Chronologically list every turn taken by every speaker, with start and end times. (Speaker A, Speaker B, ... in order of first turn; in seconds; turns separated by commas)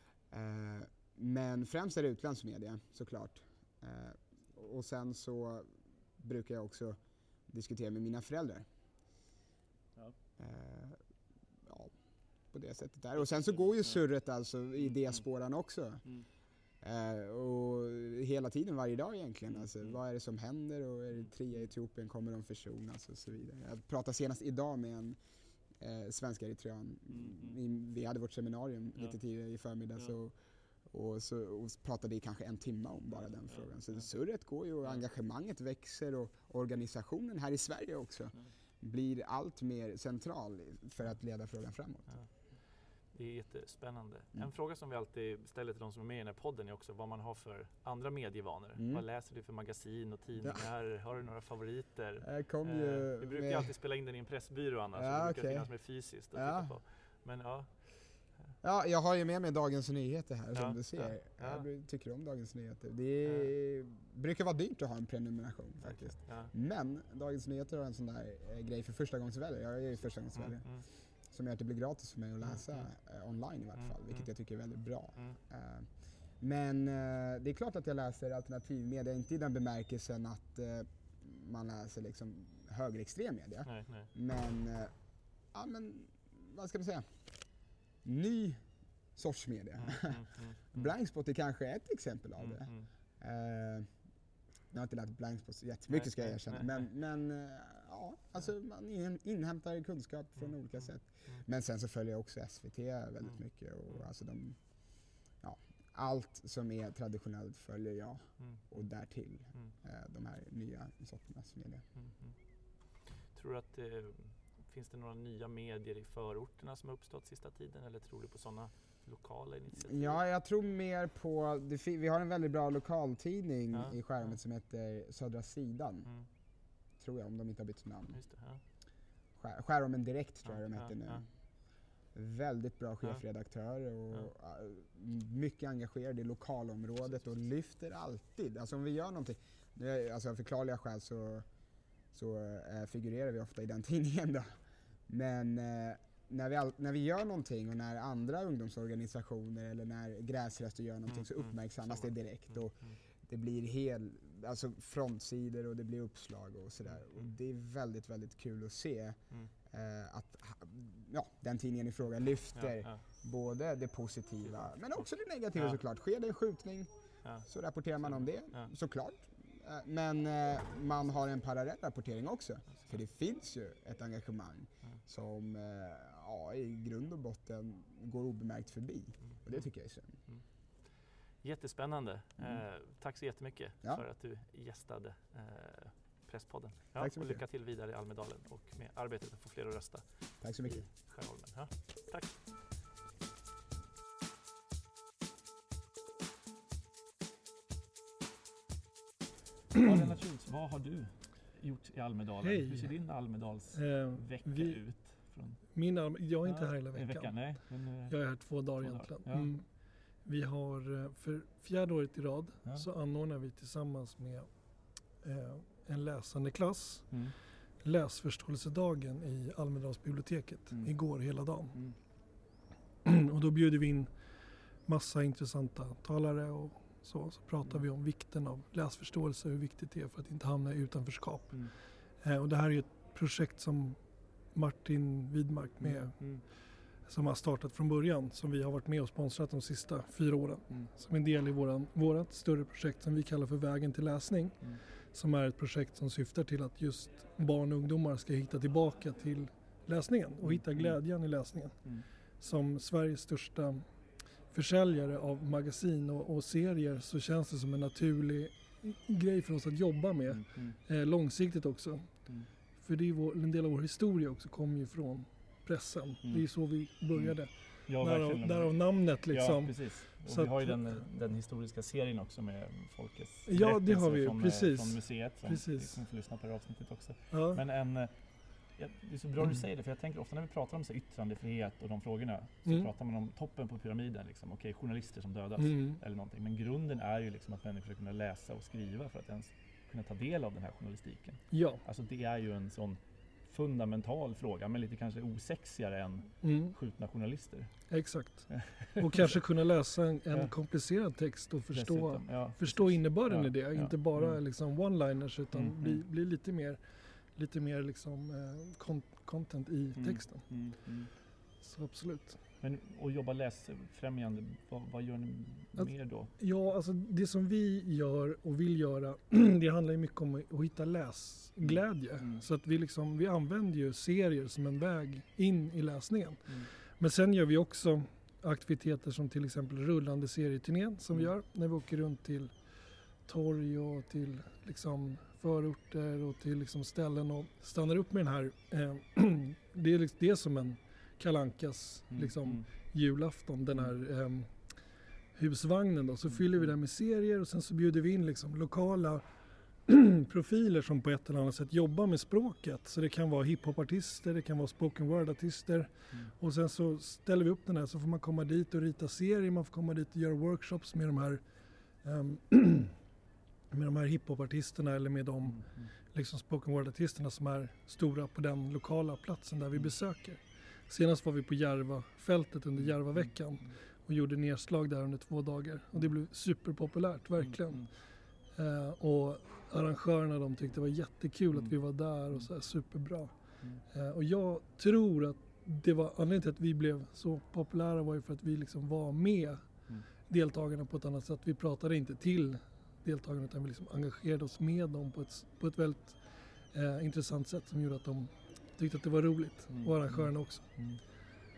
Speaker A: 0.3-8.7, Speaker A: 10.4-11.0, Speaker A: 11.7-11.9, Speaker A: 12.5-16.1, Speaker B: 13.2-14.0, Speaker A: 16.8-25.2, Speaker B: 19.5-20.0, Speaker A: 25.8-30.4, Speaker B: 27.1-27.6, Speaker A: 30.9-42.1, Speaker B: 33.1-33.7, Speaker B: 43.1-57.7, Speaker A: 48.8-49.0, Speaker A: 52.2-53.7, Speaker A: 55.0-55.7, Speaker A: 56.3-56.8, Speaker A: 58.6-84.9, Speaker B: 60.5-61.7, Speaker B: 63.2-63.5, Speaker B: 65.8-66.5, Speaker B: 70.3-70.8, Speaker B: 72.4-72.9, Speaker B: 73.8-74.3, Speaker B: 83.7-84.1, Speaker A: 85.5-87.1, Speaker A: 88.0-88.6, Speaker A: 89.2-93.9, Speaker B: 89.8-90.9, Speaker B: 92.4-92.9, Speaker A: 94.7-104.9, Speaker B: 95.9-96.9, Speaker A: 105.4-111.8, Speaker B: 108.4-108.7, Speaker B: 112.0-112.3, Speaker B: 113.3-120.2, Speaker A: 119.9-126.1, Speaker B: 123.7-124.0, Speaker A: 127.0-128.2, Speaker B: 128.1-128.6, Speaker A: 129.4-131.2, Speaker B: 130.5-131.2, Speaker A: 132.1-141.5, Speaker A: 142.1-144.6, Speaker A: 145.1-166.9, Speaker B: 151.1-153.0, Speaker B: 156.9-157.3, Speaker B: 162.6-163.0, Speaker B: 164.5-165.8, Speaker A: 167.5-180.2, Speaker B: 168.0-168.7, Speaker B: 179.3-179.7, Speaker B: 181.4-190.1, Speaker A: 187.0-187.4, Speaker A: 190.4-190.9, Speaker B: 190.6-192.4, Speaker B: 199.8-205.6, Speaker C: 202.4-202.9, Speaker C: 203.7-204.8, Speaker C: 205.7-207.4, Speaker B: 206.4-208.2, Speaker C: 208.1-209.7, Speaker B: 208.8-209.5, Speaker C: 210.3-214.5, Speaker C: 215.2-217.1, Speaker C: 217.8-221.8, Speaker C: 223.0-224.1, Speaker C: 224.9-234.0, Speaker C: 234.5-236.4, Speaker B: 235.8-236.4, Speaker C: 237.1-251.8, Speaker B: 250.4-251.0, Speaker C: 252.4-253.8, Speaker C: 254.5-262.1, Speaker B: 260.3-260.8, Speaker C: 262.8-271.0, Speaker B: 267.1-268.7, Speaker B: 269.3-278.1, Speaker C: 273.5-276.0, Speaker C: 277.3-277.6, Speaker B: 278.8-297.7, Speaker C: 285.6-286.0, Speaker C: 291.5-291.8, Speaker C: 296.4-296.8, Speaker C: 297.9-306.8, Speaker B: 298.5-299.4, Speaker B: 301.7-304.4, Speaker B: 305.5-306.0, Speaker C: 307.3-310.5, Speaker B: 310.0-311.1, Speaker C: 311.6-312.4, Speaker B: 312.6-316.3, Speaker C: 315.8-332.7, Speaker B: 321.6-322.4, Speaker C: 333.3-344.7, Speaker B: 342.1-342.7, Speaker C: 345.3-349.2, Speaker B: 346.3-346.7, Speaker C: 349.9-361.4, Speaker C: 362.0-363.0, Speaker C: 363.7-377.9, Speaker B: 365.5-365.9, Speaker B: 372.8-373.7, Speaker B: 377.4-377.9, Speaker C: 378.5-383.3, Speaker C: 383.9-400.8, Speaker B: 399.7-401.0